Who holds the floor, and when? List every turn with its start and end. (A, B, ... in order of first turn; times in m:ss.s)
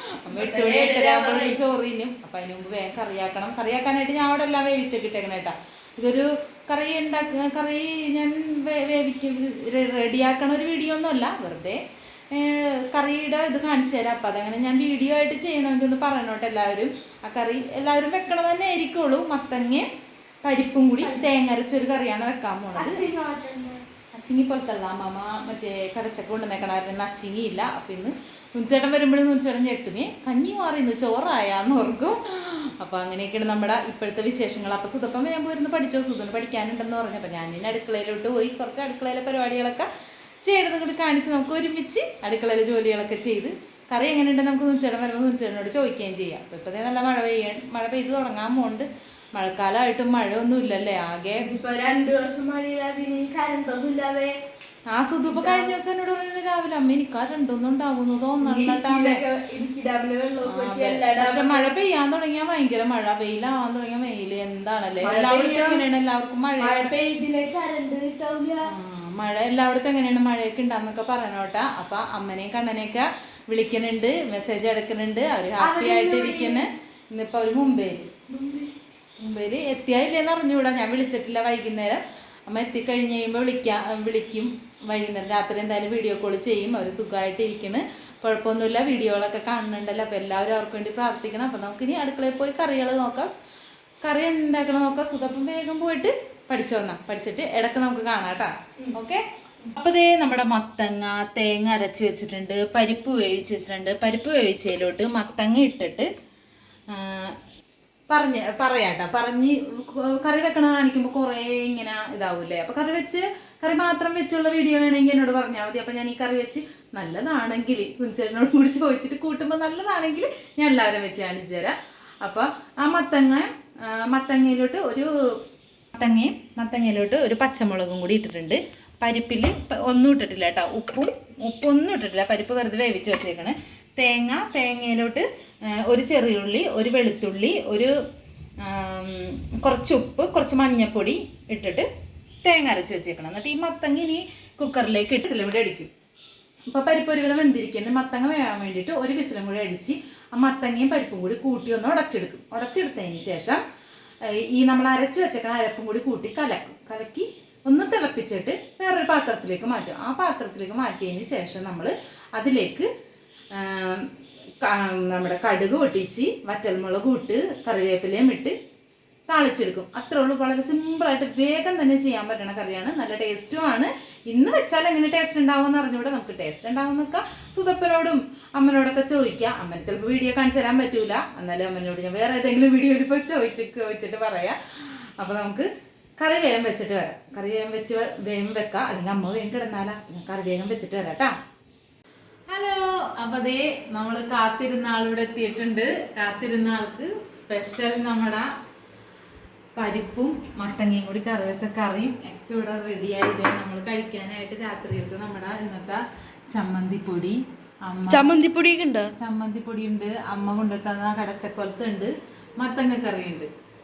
0:00.2-0:11.8 A
0:00.3-0:01.6 B
0:12.3-0:19.8 A
0:20.4-0:23.0 A
0:22.7-0:23.8 B
0:24.1-0:39.9 A
0:40.4-0:51.4 A
0:51.5-0:54.3 B
0:54.9-0:59.2 A
0:55.3-0:55.7 B
0:58.4-1:01.7 B
1:00.4-1:06.9 A
1:05.0-1:05.8 B
1:06.6-1:08.6 B
1:08.7-1:18.1 A
1:15.6-1:16.6 B
1:18.3-1:18.7 B
1:19.2-1:33.3 A
1:34.0-1:39.2 A
1:39.7-1:46.1 A
1:46.9-1:47.3 A
1:48.1-2:05.4 A
2:05.9-2:15.2 A
2:15.8-2:17.9 A
2:18.6-2:21.9 A
2:22.4-2:25.9 A
2:26.7-2:33.6 A
2:34.2-2:42.9 A
2:43.5-2:44.1 A
2:44.6-2:48.5 A
2:49.3-3:05.7 A
3:06.2-3:11.3 A
3:12.5-3:18.5 A
3:19.8-3:28.3 A
3:28.1-3:29.1 B
3:29.2-3:33.5 A